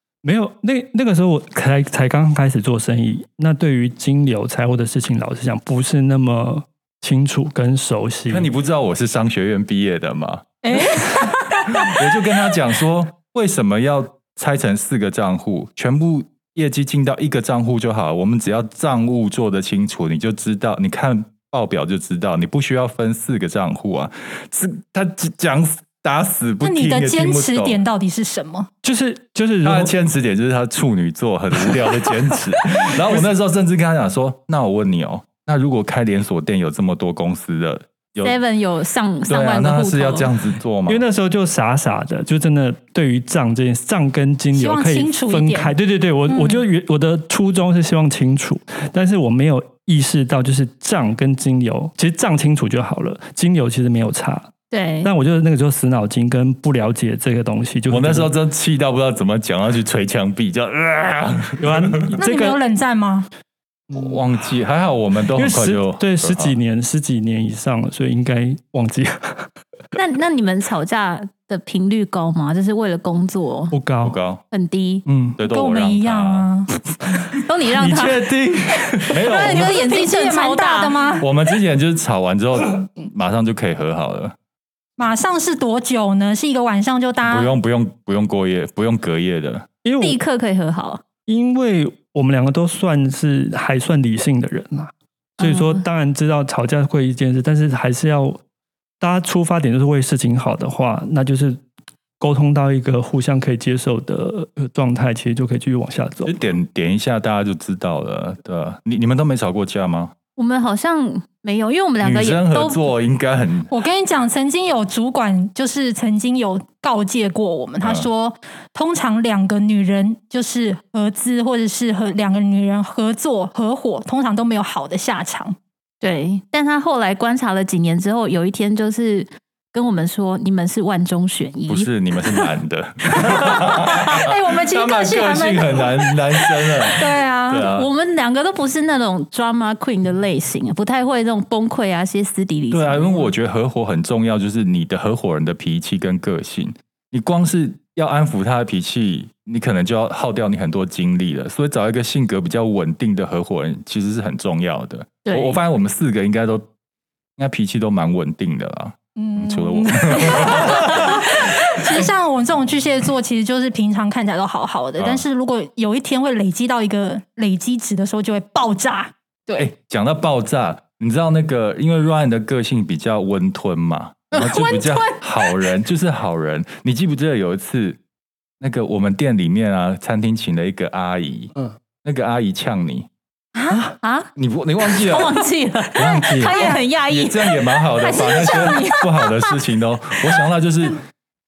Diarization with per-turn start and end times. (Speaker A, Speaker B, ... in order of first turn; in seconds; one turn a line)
Speaker A: 0.2-8.5
Speaker B: 8.3-10.6
Speaker C: 10.6-11.9
Speaker B: 11.7-27.8
Speaker C: 26.6-28.7
Speaker A: 28.8-29.9
Speaker B: 29.6-38.4
Speaker A: 32.9-33.2
Speaker D: 38.2-40.3
Speaker B: 39.3-41.0
Speaker A: 40.9-54.5
Speaker C: 44.5-45.7
Speaker C: 46.3-46.6
Speaker D: 54.7-55.1
Speaker A: 55.0-58.3
Speaker B: 57.9-62.2
Speaker A: 61.6-62.6
Speaker C: 62.2-63.3
Speaker A: 63.9-64.2
Speaker B: 63.9-66.5
Speaker A: 65.3-69.5
Speaker D: 69.9-73.8
Speaker A: 73.7-74.2
Speaker B: 74.0-74.4
Speaker D: 74.5-75.0
Speaker A: 75.0-75.4
Speaker B: 75.4-76.5
Speaker C: 75.4-76.7
Speaker D: 77.3-78.3
Speaker A: 77.7-79.2
Speaker B: 79.1-79.8
Speaker D: 79.2-81.2
Speaker C: 79.3-81.2
Speaker B: 81.2-84.3
Speaker C: 85.0-87.5
Speaker B: 87.2-89.7
Speaker A: 89.8-90.2
Speaker D: 90.0-91.0
Speaker A: 91.3-98.4
Speaker D: 95.4-95.8
Speaker A: 99.0-101.6
Speaker A: 102.2-106.3
Speaker B: 106.2-110.1
Speaker D: 110.4-112.9
Speaker B: 112.0-113.7
Speaker C: 113.7-125.5
Speaker B: 117.8-118.1
Speaker D: 126.0-132.5
Speaker B: 131.7-137.9
Speaker C: 133.4-136.1
Speaker C: 136.8-137.7
Speaker D: 137.6-143.3
Speaker B: 142.7-156.7
Speaker D: 155.2-155.6
Speaker B: 157.4-161.2
Speaker C: 159.2-169.7
Speaker B: 165.0-165.2
Speaker B: 169.6-178.0
Speaker C: 174.3-175.7
Speaker B: 178.6-183.1
Speaker C: 183.6-183.8
Speaker D: 184.0-184.3
Speaker B: 184.3-185.4
Speaker D: 184.8-187.6
Speaker B: 185.9-191.0
Speaker C: 186.3-186.9
Speaker C: 188.0-189.3